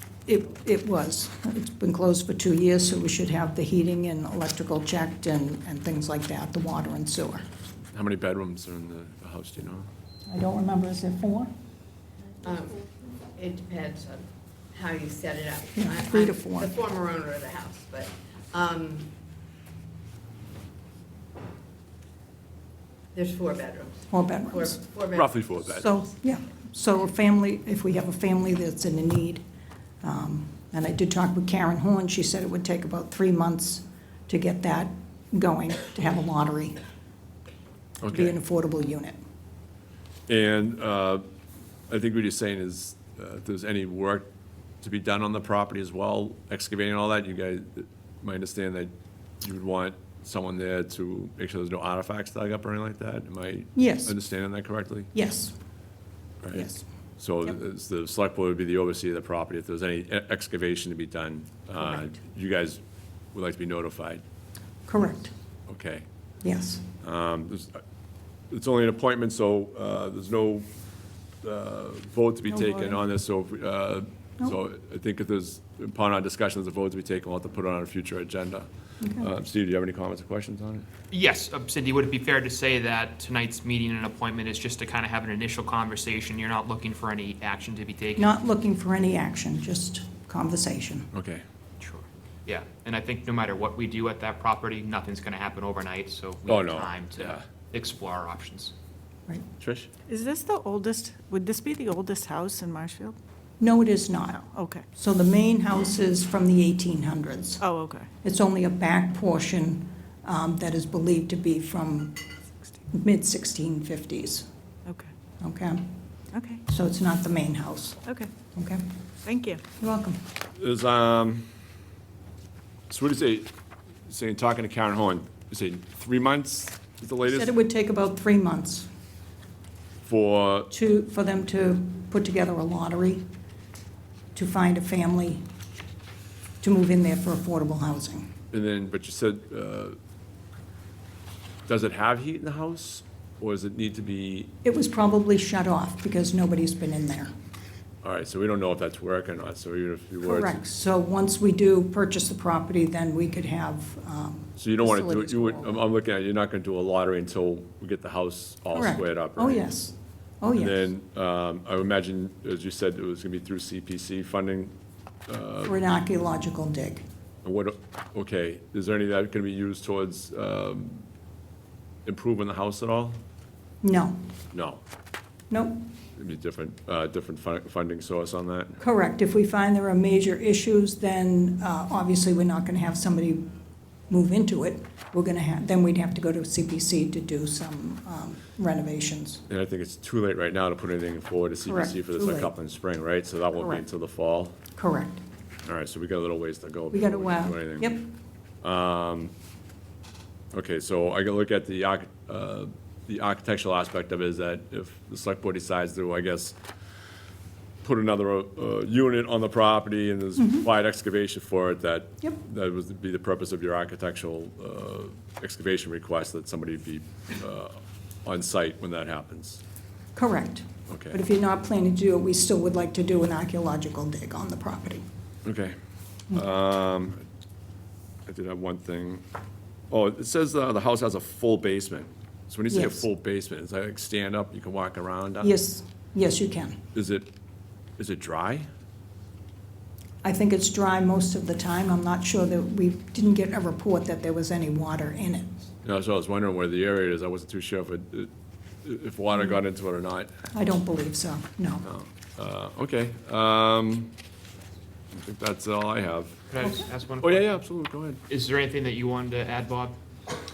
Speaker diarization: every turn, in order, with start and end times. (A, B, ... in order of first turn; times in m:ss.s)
0:00.3-0:07.4 A
0:07.9-0:09.9 B
0:10.3-0:11.5 A
0:12.4-0:19.1 C
0:15.8-0:16.7 A
0:23.1-0:25.5 C
0:24.1-0:24.8 A
0:25.1-0:25.9 B
0:25.8-0:29.4 A
0:30.0-0:36.8 A
0:38.0-0:38.4 B
0:38.1-0:39.2 A
0:40.3-0:41.2 B
0:41.9-0:44.3 B
0:44.8-0:55.1 B
0:53.8-0:54.2 A
0:55.1-0:55.6 A
0:56.5-0:56.8 A
0:57.2-1:02.8 B
1:03.3-1:04.2 B
1:04.9-1:05.3 A
1:05.7-1:06.0 B
1:06.4-1:06.8 A
1:07.0-1:07.8 B
1:08.5-1:10.7 B
1:11.4-1:18.7 B
1:12.5-1:13.0 D
1:19.0-1:19.3 A
1:19.2-1:20.9 B
1:21.1-1:28.3 E
1:28.2-1:31.1 A
1:31.1-1:31.4 B
1:31.8-1:38.7 E
1:36.5-1:37.4 B
1:39.6-1:39.9 B
1:40.1-1:43.2 D
1:43.6-1:47.6 A
1:44.5-1:44.8 D
1:47.6-1:48.1 D
1:48.2-1:52.2 A
1:52.9-1:54.5 A
1:54.9-1:55.1 D
1:55.4-1:55.9 A
1:56.3-1:56.6 D
1:56.7-1:58.0 A
1:58.0-1:58.3 D
1:58.5-1:58.8 A
1:59.2-1:59.6 D
1:59.8-2:00.2 A
2:00.6-2:01.4 B
2:02.9-2:03.5 B
2:04.1-2:07.6 B
2:07.3-2:08.9 A
2:10.0-2:10.7 B
2:10.7-2:13.2 A
2:14.4-2:15.4 A
2:16.6-2:18.3 A
2:18.5-2:20.0 B
2:21.7-2:24.5 B
2:24.6-2:27.3 A
2:28.0-2:30.6 B
2:30.2-2:35.8 A
2:34.6-2:39.7 B
2:38.7-2:40.9 A
2:40.6-2:44.7 B
2:45.3-2:45.8 B
2:45.6-2:47.0 A
2:47.4-2:51.0 B
2:52.1-2:53.2 B
2:53.8-2:54.2 A
2:54.5-2:54.8 B
2:55.5-2:55.8 A
2:56.2-2:58.8 B
2:58.8-3:03.5 A
3:04.1-3:09.4 A
3:09.5-3:14.6 B
3:11.6-3:12.5 A
3:13.6-3:13.8 A
3:14.8-3:15.2 A
3:15.7-3:17.9 B
3:16.9-3:18.1 A
3:18.6-3:19.3 B
3:20.5-3:26.6 B
3:27.8-3:39.6 B
3:30.4-3:30.7 A
3:40.2-3:45.0 A
3:40.9-3:41.2 B
3:45.4-3:45.8 B
3:46.3-3:47.2 B
3:48.3-3:49.2 B
3:49.9-3:55.5 B
3:52.7-3:53.1 A
3:55.4-3:56.8 A
3:56.9-3:57.3 B
3:58.0-3:58.7 B
4:00.2-4:05.6 A
4:05.8-4:08.3 B
4:08.8-4:10.3 B
4:10.5-4:11.9 A
4:11.8-4:14.1 B
4:15.2-4:16.6 B
4:16.5-4:17.6 E
4:17.2-4:18.2 B
4:18.3-4:20.0 E